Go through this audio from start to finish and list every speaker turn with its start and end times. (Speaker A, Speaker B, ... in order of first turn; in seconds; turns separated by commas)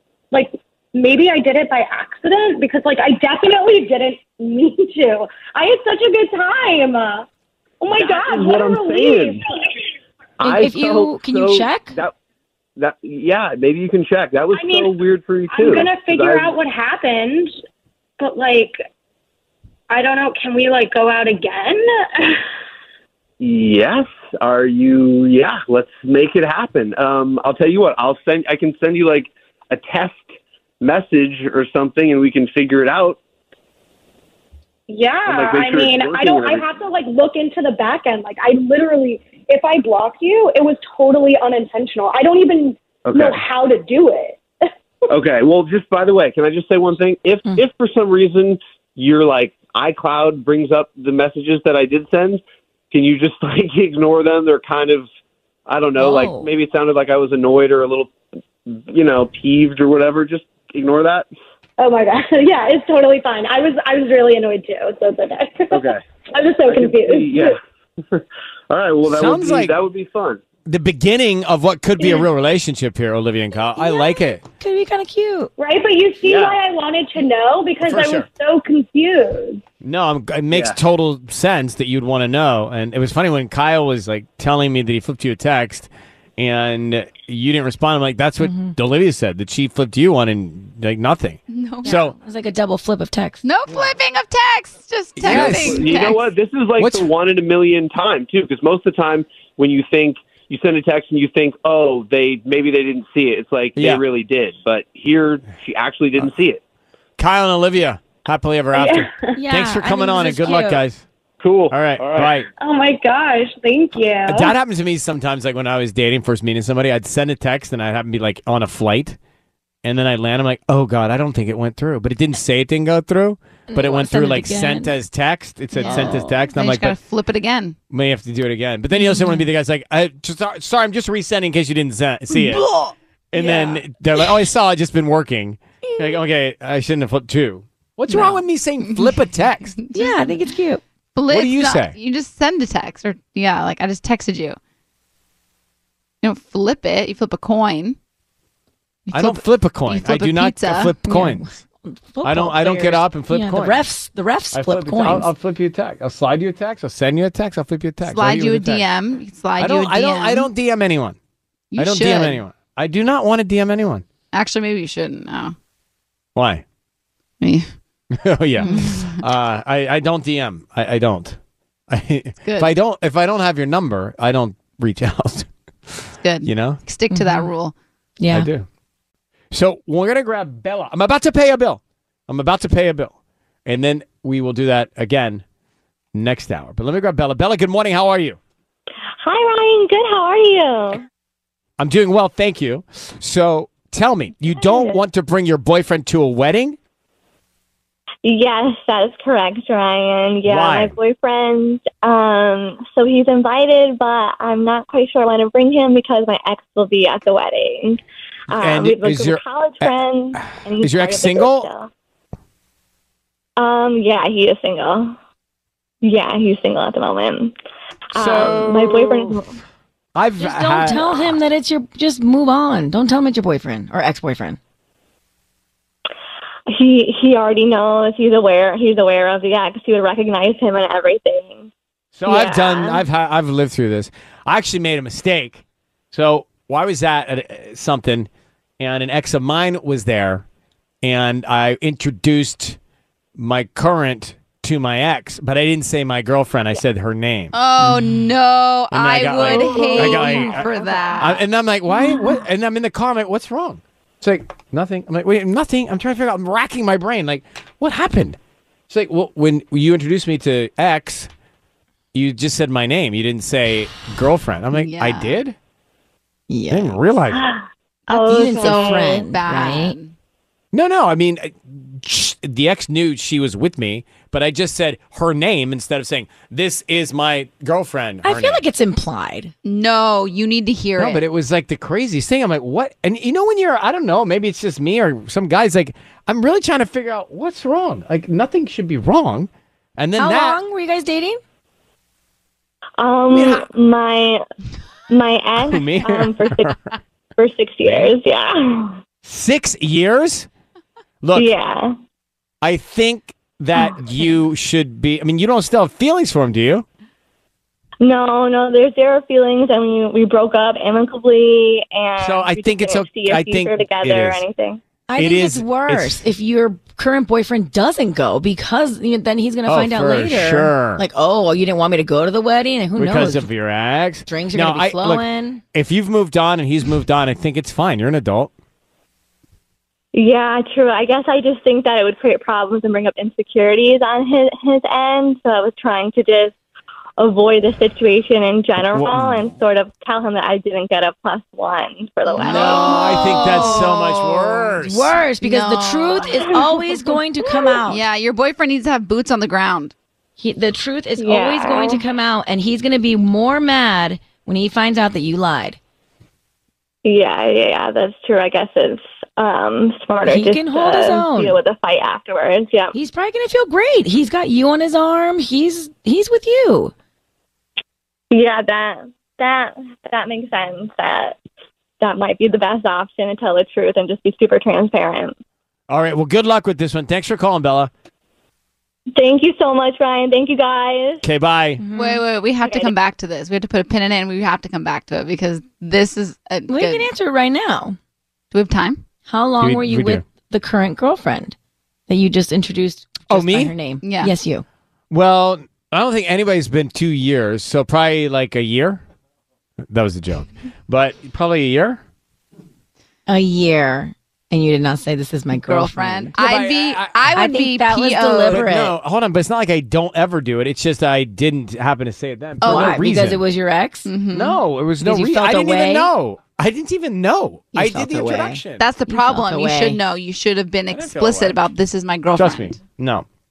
Speaker A: 0.3-7.3, Speaker A: 7.8-9.4, Speaker B: 7.9-9.4, Speaker B: 10.4-12.1, Speaker C: 10.4-12.0, Speaker B: 12.8-16.5, Speaker A: 14.5-15.0, Speaker A: 15.5-17.5, Speaker A: 18.2-18.8, Speaker A: 19.9-22.4, Speaker B: 23.4-30.3, Speaker B: 30.8-33.2, Speaker A: 34.9-44.4, Speaker B: 35.3-36.6, Speaker B: 43.0-43.4, Speaker B: 45.1-55.0, Speaker B: 55.6-58.1, Speaker C: 56.0-56.5, Speaker B: 58.7-61.3, Speaker A: 61.8-67.5, Speaker B: 65.7-66.0, Speaker B: 66.7-67.6, Speaker B: 68.1-70.4, Speaker D: 69.0-69.8, Speaker D: 70.7-74.4, Speaker C: 74.6-75.5, Speaker A: 75.6-79.6, Speaker B: 76.2-76.6, Speaker D: 77.8-78.3, Speaker D: 79.8-92.1, Speaker B: 80.5-80.8, Speaker C: 88.4-88.7, Speaker E: 91.5-92.1, Speaker C: 91.8-93.4, Speaker E: 93.4-96.2, Speaker D: 95.2-96.1, Speaker B: 95.2-106.6, Speaker D: 96.8-97.1, Speaker D: 103.8-104.0, Speaker D: 107.2-111.0, Speaker A: 108.7-109.3, Speaker C: 109.3-110.8, Speaker B: 111.4-112.4, Speaker D: 111.7-112.5, Speaker A: 112.6-114.5, Speaker D: 114.2-119.2, Speaker D: 119.8-127.0, Speaker C: 123.7-124.9, Speaker E: 125.8-127.8, Speaker C: 125.8-126.4, Speaker D: 127.9-132.7, Speaker C: 128.9-129.4, Speaker C: 132.3-134.3, Speaker D: 133.3-139.8, Speaker C: 135.8-136.2, Speaker C: 138.1-138.3, Speaker E: 139.8-140.2, Speaker C: 139.9-140.8, Speaker E: 141.1-144.6, Speaker D: 141.3-141.9, Speaker E: 146.2-148.0, Speaker E: 149.1-150.9, Speaker D: 149.1-151.6, Speaker C: 151.0-155.3, Speaker D: 152.2-153.8, Speaker D: 154.5-158.8, Speaker E: 158.0-160.5, Speaker D: 159.6-161.2, Speaker E: 161.7-162.4, Speaker D: 161.8-164.0, Speaker E: 164.3-165.5, Speaker D: 166.3-166.6, Speaker E: 167.4-167.7, Speaker D: 168.1-171.4, Speaker E: 168.6-169.2, Speaker D: 171.9-176.8, Speaker E: 172.4-172.7, Speaker E: 176.2-177.7, Speaker C: 177.1-177.5, Speaker C: 178.2-178.5, Speaker D: 178.3-178.7, Speaker D: 179.5-183.1, Speaker D: 183.7-185.4, Speaker D: 186.1-188.4, Speaker F: 189.2-191.0, Speaker D: 191.8-196.8, Speaker F: 194.5-195.0, Speaker F: 198.2-211.9, Speaker D: 200.4-200.9, Speaker D: 208.5-211.7, Speaker F: 213.6-215.2, Speaker F: 216.0-217.5, Speaker F: 218.1-219.5, Speaker D: 218.2-219.3, Speaker D: 220.1-221.3, Speaker C: 220.4-224.6, Speaker F: 226.7-231.7, Speaker D: 232.1-240.4, Speaker F: 232.2-233.1, Speaker D: 241.0-242.8, Speaker D: 243.3-248.1, Speaker E: 247.5-251.4, Speaker D: 248.9-258.4, Speaker F: 249.5-251.3, Speaker D: 258.9-261.3, Speaker D: 262.1-265.6, Speaker E: 264.7-265.4, Speaker C: 266.5-267.0, Speaker D: 266.7-267.4, Speaker F: 267.3-269.3, Speaker C: 268.1-269.9, Speaker E: 268.2-270.1, Speaker D: 270.7-278.6, Speaker C: 278.2-279.5, Speaker E: 279.6-281.2, Speaker D: 281.0-290.6, Speaker C: 290.2-291.4, Speaker F: 293.0-294.4, Speaker D: 293.3-293.6, Speaker F: 295.1-296.9, Speaker D: 295.7-296.8, Speaker F: 297.4-299.0, Speaker D: 297.8-298.1, Speaker D: 299.2-300.5, Speaker D: 301.2-301.5, Speaker F: 301.3-301.9, Speaker D: 302.6-306.9, Speaker F: 308.0-314.8, Speaker D: 312.2-314.4, Speaker C: 315.1-323.5, Speaker D: 315.2-316.2, Speaker D: 319.6-321.0, Speaker D: 323.0-328.5, Speaker C: 324.3-325.6, Speaker F: 330.1-336.5, Speaker F: 337.2-343.8, Speaker D: 338.9-339.5, Speaker C: 342.4-343.9, Speaker D: 342.4-345.1, Speaker E: 342.9-344.3, Speaker C: 344.8-348.0, Speaker E: 345.4-346.4, Speaker F: 346.4-346.8, Speaker F: 347.4-347.8, Speaker E: 347.9-349.9, Speaker C: 350.4-355.8, Speaker F: 351.2-352.0, Speaker F: 357.0-362.9, Speaker C: 360.2-361.6, Speaker C: 362.9-366.9, Speaker F: 368.3-371.4, Speaker F: 372.0-375.3, Speaker D: 375.9-377.9, Speaker F: 379.1-381.2, Speaker D: 381.2-381.8, Speaker C: 381.8-382.2, Speaker E: 381.9-387.1, Speaker F: 382.6-382.9, Speaker C: 386.7-388.0, Speaker E: 388.5-389.0, Speaker C: 389.2-391.5, Speaker D: 389.6-390.2, Speaker C: 392.1-394.6, Speaker D: 393.3-393.7, Speaker E: 394.0-394.3, Speaker D: 395.1-399.0, Speaker D: 399.8-402.0, Speaker C: 403.3-406.4, Speaker E: 405.5-408.6, Speaker D: 406.3-407.3, Speaker C: 407.3-408.9, Speaker D: 408.4-413.4, Speaker E: 412.6-413.0, Speaker C: 412.6-414.1, Speaker E: 414.1-414.6, Speaker D: 414.3-418.9, Speaker C: 415.0-416.1, Speaker C: 417.7-420.0, Speaker E: 418.8-422.8, Speaker D: 420.9-421.6, Speaker D: 422.4-423.2